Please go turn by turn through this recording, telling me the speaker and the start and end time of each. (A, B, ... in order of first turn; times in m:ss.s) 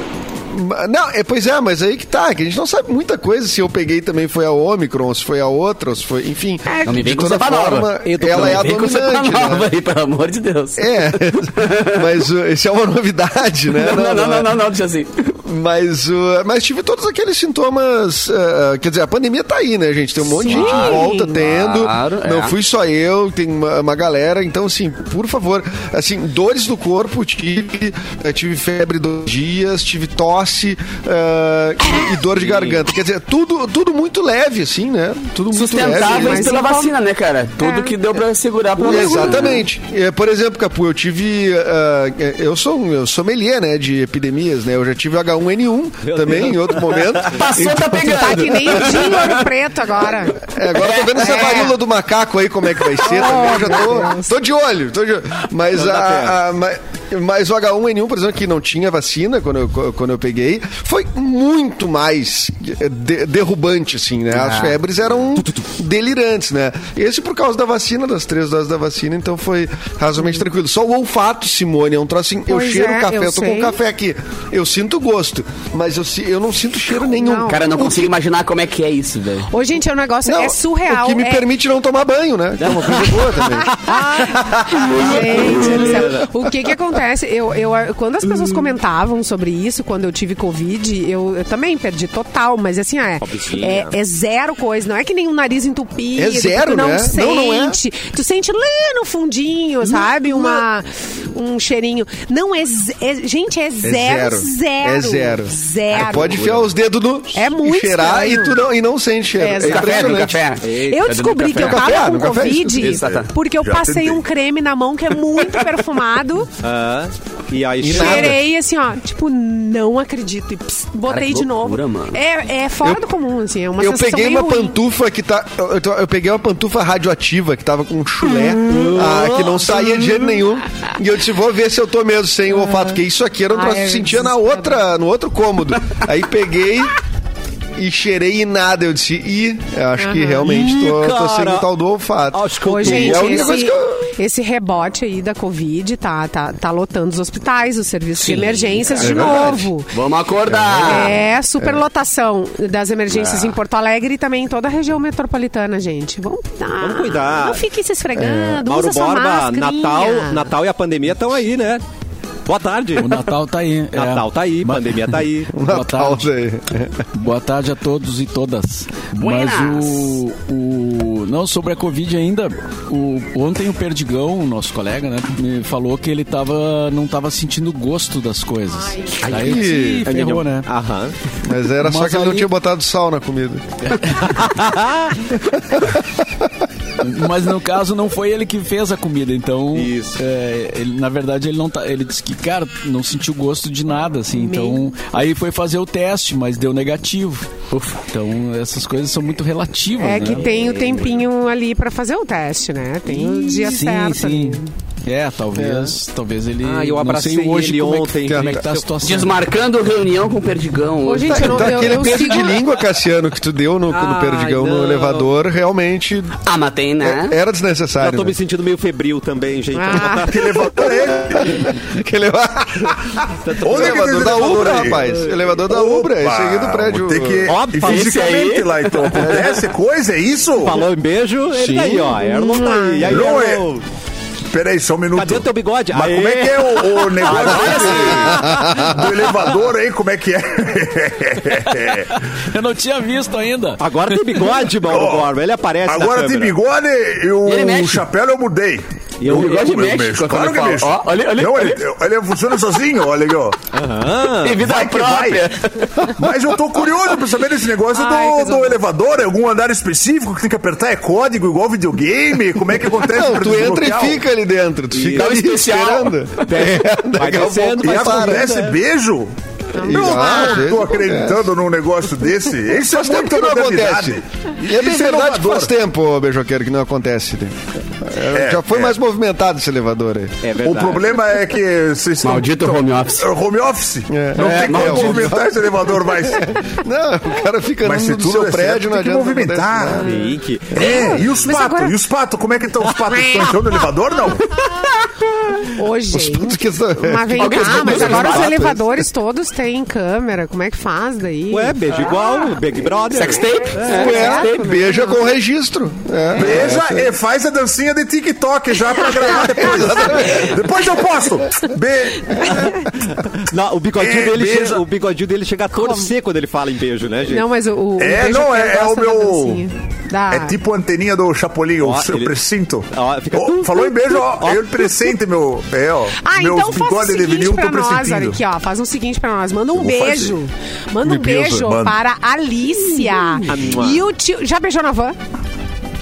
0:00.5-0:09.7 A
0:06.8-0:12.0 B
0:08.0-0:08.8 C
0:10.8-0:14.6 A
0:13.7-0:15.4 B
0:15.4-0:36.5 A
0:20.3-0:21.3 D
0:20.5-0:22.5 B
0:35.5-0:39.6 B
0:35.9-0:36.9 D
0:37.6-0:37.9 D
0:38.8-0:49.2 A
0:38.8-0:39.5 D
0:46.0-0:47.4 C
0:47.3-0:49.4 B
0:48.0-0:50.4 D
0:50.3-1:18.1 A
0:50.7-0:51.7 B
0:51.2-0:51.7 D
0:53.0-0:54.3 D
0:55.7-0:56.4 C
1:05.4-1:05.6 C
1:12.5-1:13.8 D
1:17.2-1:17.6 D
1:17.4-1:19.5 B
1:19.5-1:21.5 D
1:20.2-1:23.7 A
1:22.6-1:26.3 C
1:24.9-1:46.4 D
1:33.2-1:34.0 C
1:36.1-1:37.8 A
1:43.8-1:50.4 A
1:46.1-1:46.7 C
1:47.3-1:48.6 D
1:49.4-1:50.2 D
1:49.6-1:52.2 B
1:50.6-1:51.0 C
1:50.9-1:56.5 D
1:51.6-1:52.9 A
1:52.8-1:53.3 B
1:53.0-1:54.2 E
1:56.6-1:58.4 C
1:57.8-1:58.4 A
1:57.9-2:04.8 D
2:01.1-2:02.2 B
2:03.8-2:16.9 A
2:08.6-2:10.1 C
2:12.6-2:13.0 D
2:13.5-2:14.8 D
2:17.8-2:24.1 A
2:20.0-2:20.4 D
2:20.4-2:21.7 C
2:22.3-2:23.6 C
2:22.6-2:29.9 D
2:28.1-2:31.1 B
2:28.9-2:29.7 A
2:30.5-2:31.8 A
2:30.8-2:40.5 D
2:33.1-2:33.6 B
2:36.8-2:37.6 C
2:38.1-2:38.6 A
2:38.6-2:41.8 C
2:42.4-2:43.3 C
2:43.0-2:44.9 F
2:43.9-2:45.6 C
2:45.5-2:47.0 A
2:45.6-2:46.3 F
2:47.1-3:00.7 F
2:49.2-2:50.2 B
2:58.7-2:59.2 D
2:59.2-3:01.2 C
2:59.3-3:00.1 A
3:01.4-3:03.9 A
3:01.8-3:02.5 F
3:03.9-3:04.3 F
3:04.1-3:05.4 C
3:07.0-3:17.5 F
3:09.7-3:10.2 C
3:14.3-3:14.9 D
3:17.7-3:18.0 B
3:18.0-3:20.5 F
3:20.0-3:24.7 D
3:20.2-3:21.2 C
3:23.2-3:23.7 C
3:23.6-3:29.4 F
3:26.6-3:28.9 C
3:28.3-3:28.6 A
3:29.0-3:32.2 B
3:31.0-3:32.6 D
3:31.3-3:36.4 A
3:33.9-3:35.3 C
3:36.4-3:37.4 B
3:37.0-3:38.4 A
3:38.0-3:40.6 C
3:39.8-3:40.3 D
3:40.1-3:41.7 E
3:40.5-3:47.5 A
3:43.4-3:46.1 C
3:43.6-3:45.0 E
3:46.0-3:50.8 E
3:47.5-3:48.3 C
3:47.8-3:49.5 B
3:50.6-3:53.8 C
3:51.5-3:52.2 F
3:52.1-3:53.3 D
3:53.0-3:53.7 E
3:54.5-4:02.2 E
3:55.1-3:58.7 C
3:58.2-3:59.0 A
4:01.8-4:04.7 F
4:03.8-4:06.6 C
4:04.9-4:05.3 E
4:05.8-4:08.8 E
4:07.4-4:08.0 B
4:09.2-4:09.7 C
4:09.2-4:11.8 B
4:09.6-4:13.6 E
4:13.7-4:14.6 C
4:14.2-4:16.1 B
4:14.6-4:15.5 E
4:16.1-4:24.2 E
4:17.9-4:18.8 D
4:22.9-4:28.5 A
4:24.9-4:25.4 C
4:25.1-4:26.4 B
4:26.5-4:28.8 C
4:27.8-4:35.7 E
4:29.7-4:30.7 D
4:29.8-4:31.4 A
4:32.8-4:40.5 A
4:38.3-4:39.0 E
4:40.4-4:41.2 C
4:40.6-4:46.6 E
4:42.2-4:43.3 B
4:44.1-4:50.1 A
4:44.4-4:45.4 B
4:47.8-4:50.1 E
4:50.0-4:51.2 C
4:50.1-4:52.0 D
4:50.8-4:51.1 A
4:50.8-4:54.5 E
4:53.1-4:53.5 D
4:55.6-5:02.4 D
4:56.1-4:59.0 A
4:57.4-4:58.5 B
4:58.0-4:58.4 C
5:01.5-5:04.4 C
5:01.9-5:02.5 B
5:03.1-5:04.6 B
5:03.8-5:05.2 D
5:03.9-5:07.1 A
5:06.4-5:12.9 E
5:09.3-5:10.6 A
5:09.6-5:10.4 D
5:13.4-5:17.5 C
5:14.0-5:14.8 E
5:15.7-5:16.1 D
5:17.3-5:20.6 D
5:18.0-5:19.6 E
5:20.3-5:28.4 E
5:21.8-5:22.4 C
5:22.9-5:24.9 C
5:26.2-5:35.2 D
5:29.8-5:30.4 E
5:31.0-5:31.7 A
5:31.5-5:32.0 E
5:33.0-5:34.0 C